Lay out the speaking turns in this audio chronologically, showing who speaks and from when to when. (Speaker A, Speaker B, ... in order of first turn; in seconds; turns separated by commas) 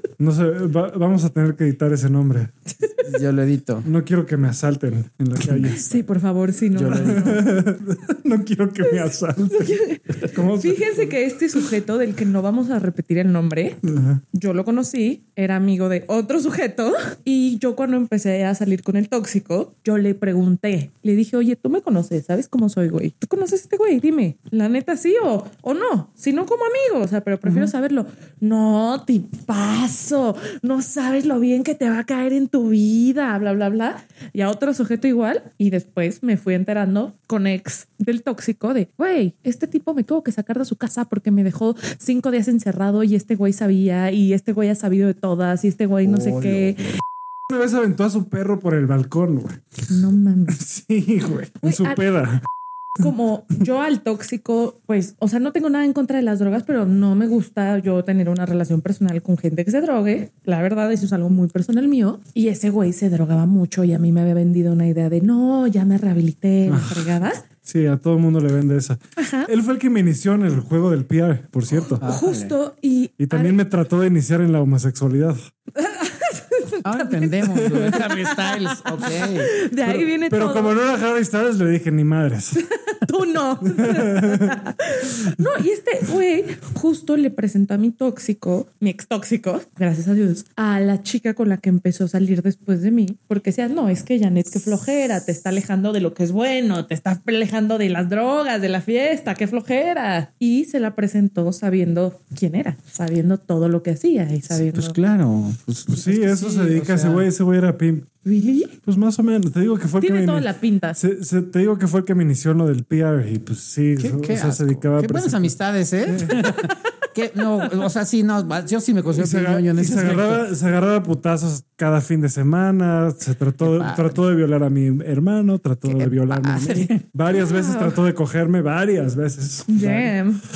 Speaker A: 0.2-2.5, Speaker B: 3.0-3.9, Speaker A: 3.8-6.1, Speaker C: 5.6-7.5, Speaker B: 6.7-7.5, Speaker A: 6.9-11.2, Speaker C: 9.4-47.0, Speaker A: 13.8-14.2, Speaker B: 27.4-27.7, Speaker A: 46.0-46.8, Speaker A: 47.5-49.6, Speaker C: 49.9-50.6, Speaker A: 50.5-52.4, Speaker C: 51.6-52.1, Speaker C: 53.0-67.4, Speaker A: 66.7-67.1, Speaker A: 67.6-72.0, Speaker C: 69.2-69.5, Speaker B: 71.9-72.5, Speaker C: 72.0-73.6, Speaker A: 73.2-75.4, Speaker C: 75.7-80.7, Speaker B: 76.8-79.5, Speaker A: 77.5-78.0, Speaker A: 79.8-82.6, Speaker C: 82.8-105.0, Speaker A: 83.6-84.6, Speaker B: 104.5-107.3, Speaker A: 105.9-108.1, Speaker C: 108.2-108.8, Speaker A: 108.8-116.6, Speaker C: 110.0-111.0, Speaker B: 114.0-120.5, Speaker A: 119.1-130.2, Speaker B: 123.6-124.2, Speaker B: 125.8-127.0, Speaker C: 127.3-128.0, Speaker C: 129.7-130.4